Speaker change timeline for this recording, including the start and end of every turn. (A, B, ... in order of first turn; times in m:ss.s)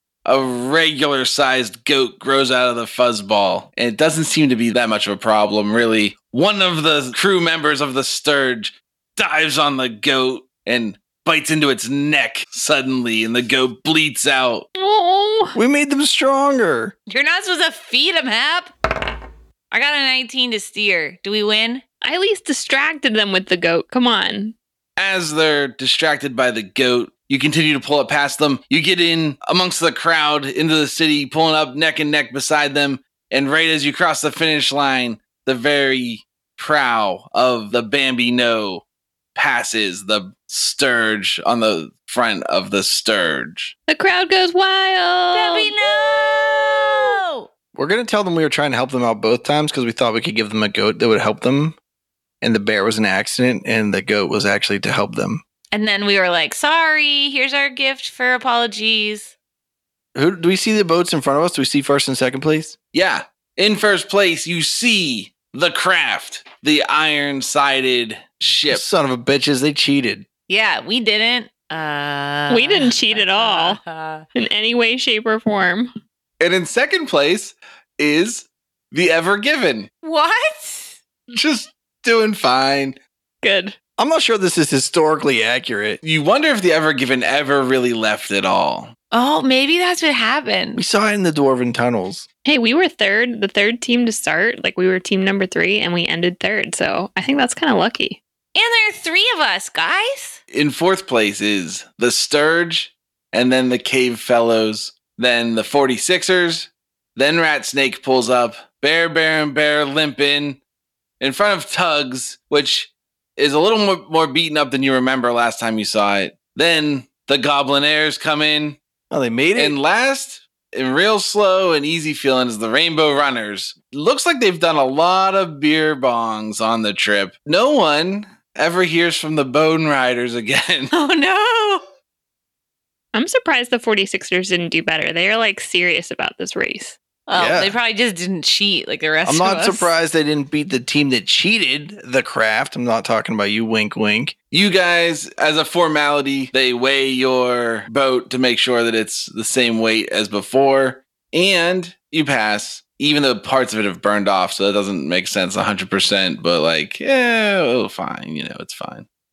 0:00.2-0:14.7 A
0:14.8-0:15.6 B
0:15.6-0:17.0 C
0:17.1-0:18.7 D
0:19.7-0:21.8 D
0:22.0-0:24.6 B
0:25.0-0:38.8 A
0:39.4-0:43.7 A
0:43.9-0:45.8 B
0:45.3-0:47.5 D
0:47.7-0:51.8 C
0:52.4-0:55.4 C
0:55.7-0:59.3 D
1:00.2-1:02.8 C
1:02.9-1:08.8 A
1:08.7-1:10.3 C
1:10.5-1:14.3 D
1:12.5-1:13.8 B
1:14.4-1:15.9 B
1:16.4-1:19.9 A
1:20.0-1:21.0 D
1:21.3-1:23.0 A
1:23.4-1:23.8 B
1:24.0-1:26.0 C
1:26.0-1:28.9 A
1:29.1-1:30.8 D
1:30.8-1:32.3 C
1:32.4-1:38.2 B
1:38.6-1:40.4 D
1:40.5-1:50.6 A
1:51.2-1:58.8 A
1:59.1-1:59.8 C
1:59.6-2:10.9 A
2:10.9-2:11.8 D
2:13.1-2:17.0 B
2:17.3-2:19.9 D
2:17.3-2:17.8 C
2:19.2-2:24.3 C
2:24.5-2:39.1 A